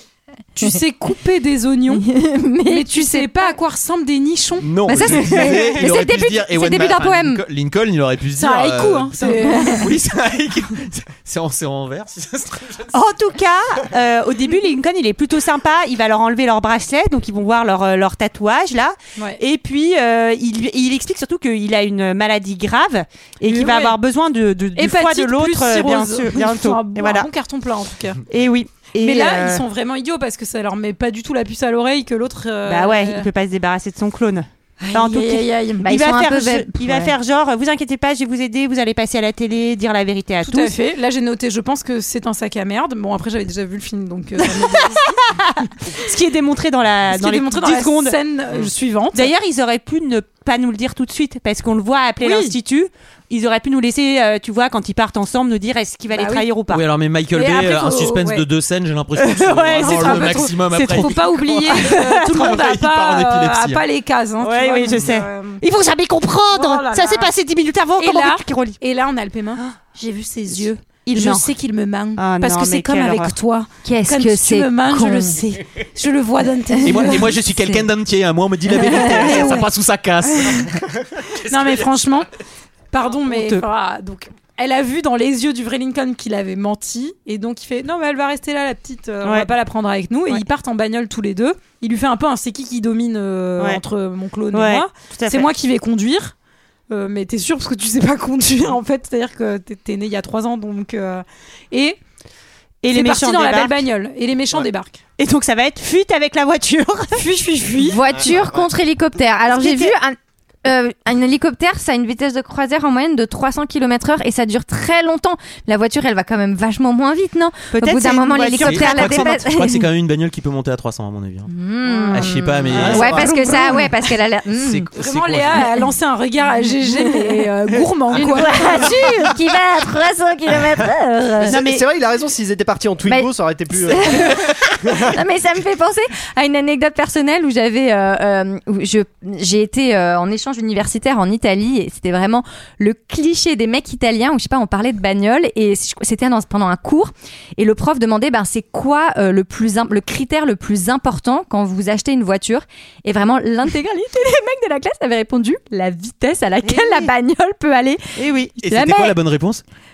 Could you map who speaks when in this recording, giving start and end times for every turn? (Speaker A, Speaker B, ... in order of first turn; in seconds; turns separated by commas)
Speaker A: 0.6-2.1, Speaker B: 1.9-3.5, Speaker A: 2.7-5.5, Speaker C: 4.6-12.9, Speaker B: 4.8-7.4, Speaker A: 8.4-9.9, Speaker D: 12.9-27.3, Speaker A: 23.5-24.0, Speaker A: 24.8-28.2, Speaker D: 28.3-29.6, Speaker A: 29.0-33.3, Speaker D: 32.7-40.8, Speaker A: 34.8-35.9, Speaker B: 35.8-37.1, Speaker A: 40.4-45.2, Speaker D: 45.3-48.2, Speaker A: 47.1-49.3, Speaker D: 49.1-56.8, Speaker A: 52.2-52.5, Speaker A: 56.2-56.5, Speaker C: 56.7-63.9, Speaker A: 57.3-58.5, Speaker D: 59.2-62.5, Speaker A: 59.7-65.6, Speaker D: 64.4-68.8, Speaker A: 66.5-67.3, Speaker A: 68.0-77.3, Speaker D: 71.0-71.5, Speaker D: 72.2-73.3, Speaker B: 73.8-75.4, Speaker B: 76.8-77.9, Speaker C: 76.8-82.0, Speaker B: 78.7-79.6, Speaker A: 79.2-79.6, Speaker A: 80.2-80.7, Speaker A: 81.5-82.3, Speaker A: 82.9-96.3, Speaker D: 83.3-83.6, Speaker D: 94.5-95.5, Speaker A: 96.9-102.0, Speaker D: 102.8-103.8, Speaker A: 102.9-105.0, Speaker D: 105.2-107.2, Speaker A: 107.1-108.0, Speaker B: 107.8-119.9, Speaker E: 108.1-108.5, Speaker D: 109.5-109.9, Speaker D: 117.7-119.5, Speaker C: 118.6-121.5, Speaker B: 121.5-124.9, Speaker A: 121.9-122.2, Speaker C: 122.1-123.5, Speaker E: 122.8-123.2, Speaker D: 122.8-123.2, Speaker C: 124.6-125.7, Speaker A: 125.0-129.0, Speaker B: 126.9-127.4, Speaker B: 128.1-131.6, Speaker E: 131.4-135.2, Speaker D: 131.4-131.8, Speaker B: 133.1-158.0, Speaker D: 156.7-157.1, Speaker D: 158.2-158.5, Speaker C: 158.6-159.6, Speaker B: 158.7-159.1